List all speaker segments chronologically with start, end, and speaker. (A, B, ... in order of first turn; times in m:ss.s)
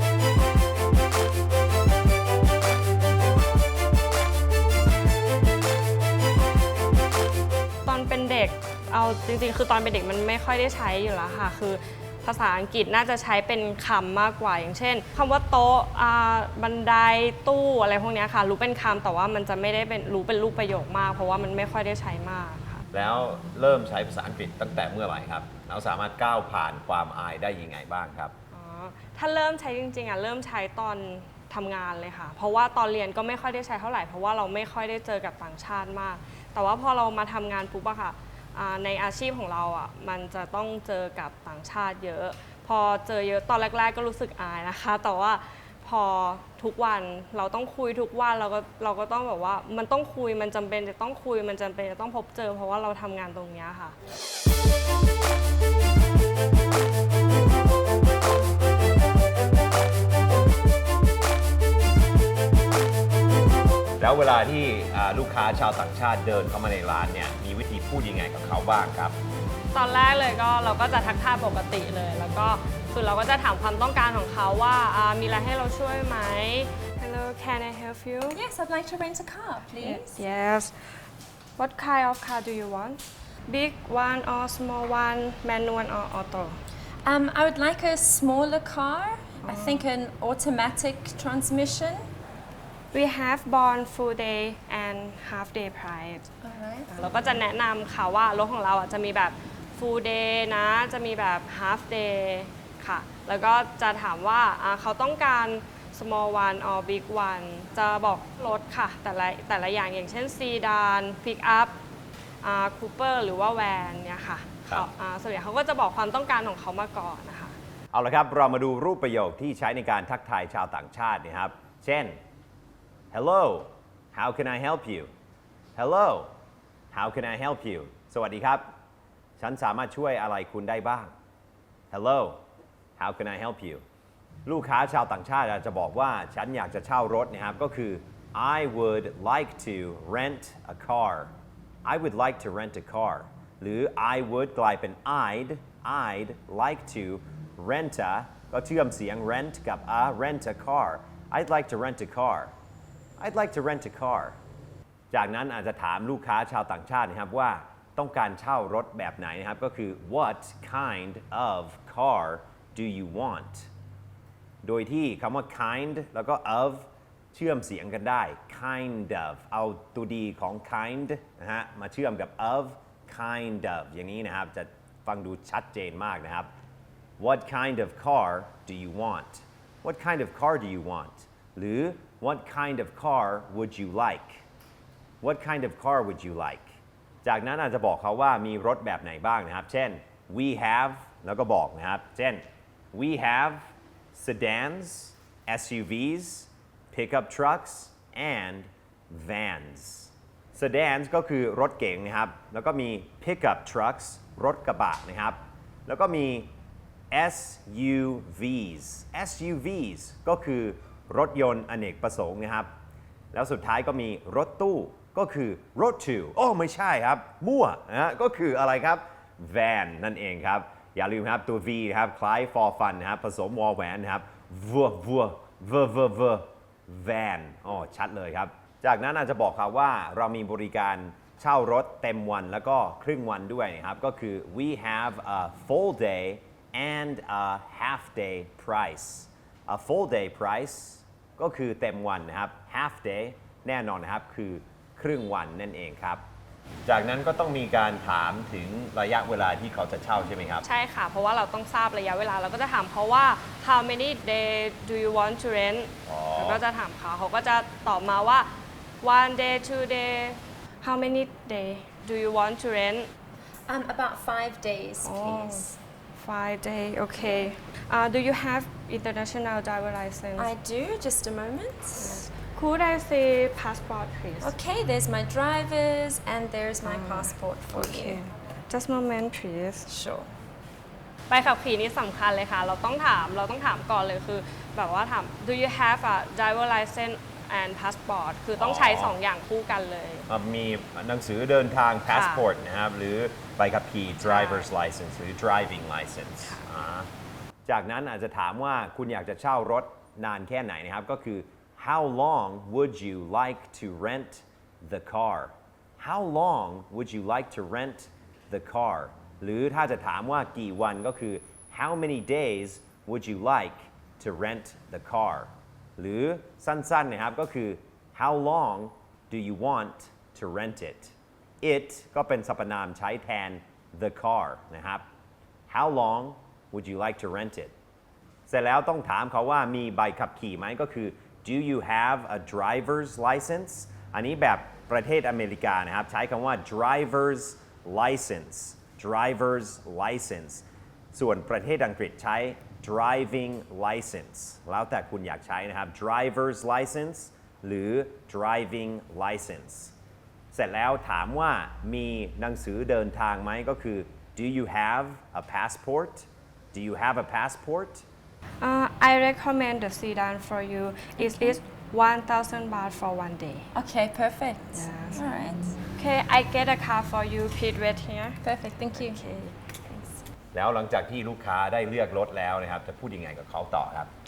0:07.8-0:22.9 A
0:22.9-0:28.3 B
0:28.5-0:54.0 A
1:04.0-1:09.2 B
1:09.7-1:18.4 A
1:18.3-1:20.2 C
1:19.8-1:20.9 A
1:21.6-1:26.6 A
1:27.0-1:32.1 C
1:29.4-1:29.9 A
1:32.9-1:36.3 A
1:36.4-1:36.9 C
1:36.9-1:51.8 A
1:52.4-1:57.6 A
1:57.9-2:02.2 B
2:03.1-2:05.1 B
2:05.8-2:06.3 B
2:06.9-2:08.6 B
2:09.4-2:11.1 B
2:11.9-2:12.4 B
2:13.0-2:13.8 B
2:14.5-2:21.3 B
2:21.8-2:32.5 B
2:33.2-2:34.4 B
2:35.1-2:43.7 B
2:44.6-2:56.5 B
2:57.2-3:04.5 B
3:05.2-3:26.5 B
3:27.1-3:32.7 B
3:33.3-4:06.2 B
4:06.9-4:10.6 B
4:10.6-4:18.5 A
4:16.1-4:16.6 B
4:19.0-4:23.1 A
4:23.7-4:25.8 C
4:25.0-4:30.5 A
4:30.4-4:32.3 C
4:32.0-4:34.6 A
4:34.4-4:38.2 C
4:36.8-4:39.9 A
4:39.9-4:40.3 C
4:41.3-4:50.3 A
4:48.6-4:49.2 B
4:50.3-4:57.1 B
4:52.1-4:52.5 A
4:54.2-4:54.7 A
4:57.7-5:25.0 B
5:25.7-5:27.7 B
5:28.5-5:50.0 B
5:50.5-5:58.1 B
5:58.6-6:03.7 A
6:01.2-6:01.6 C
6:03.7-6:05.7 C
6:04.7-6:08.4 A
6:08.4-6:09.2 C
6:08.9-6:09.7 A
6:09.9-6:10.2 C
6:10.5-6:14.1 B